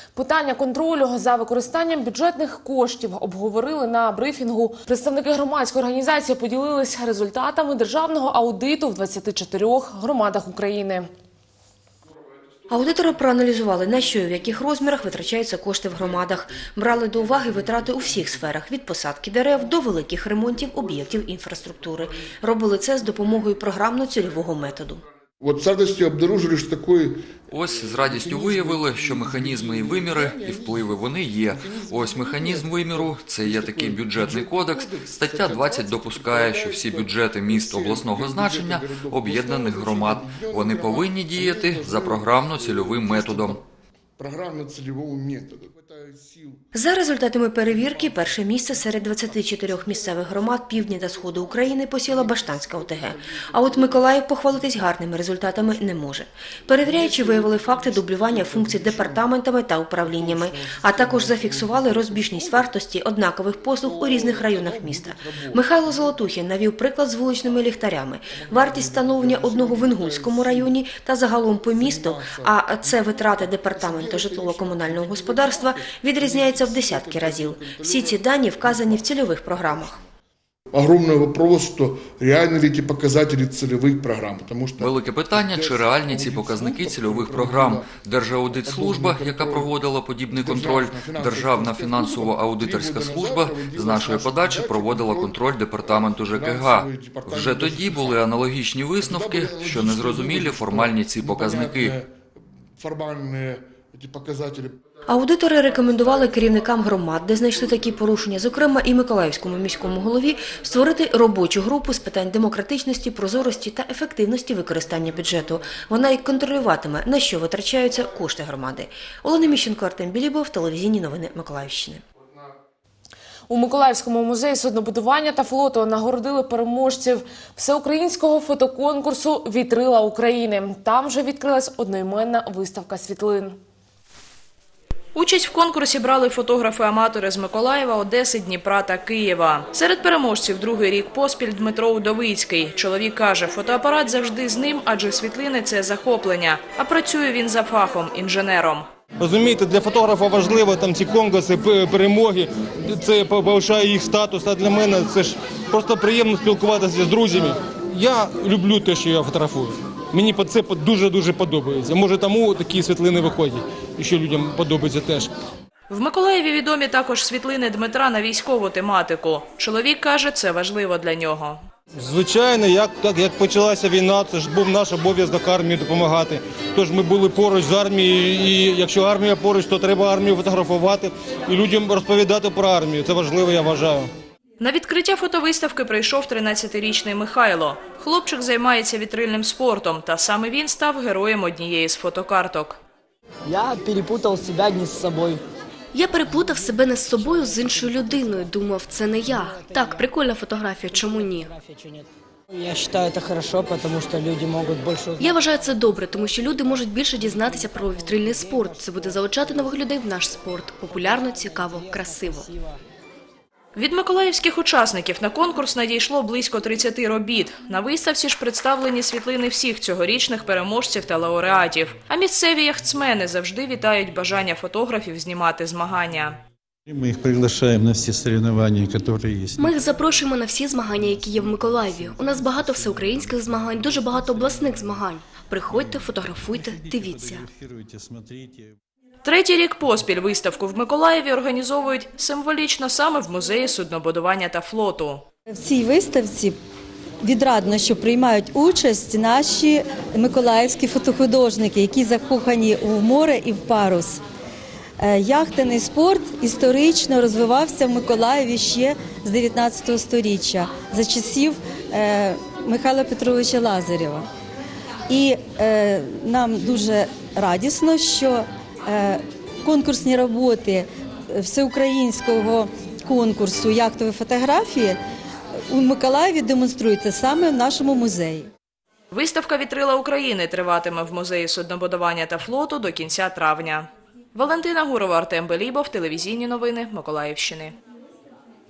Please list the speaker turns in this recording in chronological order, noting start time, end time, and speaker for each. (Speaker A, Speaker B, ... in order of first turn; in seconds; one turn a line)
Speaker A: 0.1-11.1
Speaker B: 12.7-25.0
Speaker C: 17.3-18.2
Speaker C: 25.4-27.3
Speaker D: 27.5-43.6
Speaker C: 27.8-30.9
Speaker C: 31.5-43.6
Speaker C: 44.2-46.6
Speaker B: 46.7-80.0
Speaker C: 47.7-54.8
Speaker C: 56.7-59.3
Speaker C: 60.0-62.7
Speaker C: 63.5-66.2
Speaker C: 68.3-70.8
Speaker C: 71.5-79.9
Speaker C: 80.7-88.0
Speaker D: 84.8-102.0
Speaker C: 88.5-89.7
Speaker C: 90.3-98.2
Speaker C: 99.0-102.2
Speaker C: 102.8-104.8
Speaker B: 105.1-122.0
Speaker A: 123.5-133.6
Speaker E: 135.2-148.9
Speaker F: 149.2-165.3
Speaker E: 165.9-171.6
Speaker F: 171.9-184.1
Speaker E: 184.6-192.8
Speaker G: 193.5-195.4
Speaker H: 195.9-201.5
Speaker G: 201.7-202.0
Speaker G: 202.6-205.2
Speaker H: 205.2-212.5
Speaker E: 213.8-226.4
Speaker I: 226.9-229.6
Speaker H: 229.6-237.5
Speaker I: 237.5-238.7
Speaker E: 239.2-245.2
Speaker J: 245.5-246.6
Speaker J: 247.2-254.2
Speaker J: 255.0-264.3
Speaker J: 265.1-275.0
Speaker J: 275.7-278.5
Speaker E: 279.1-287.8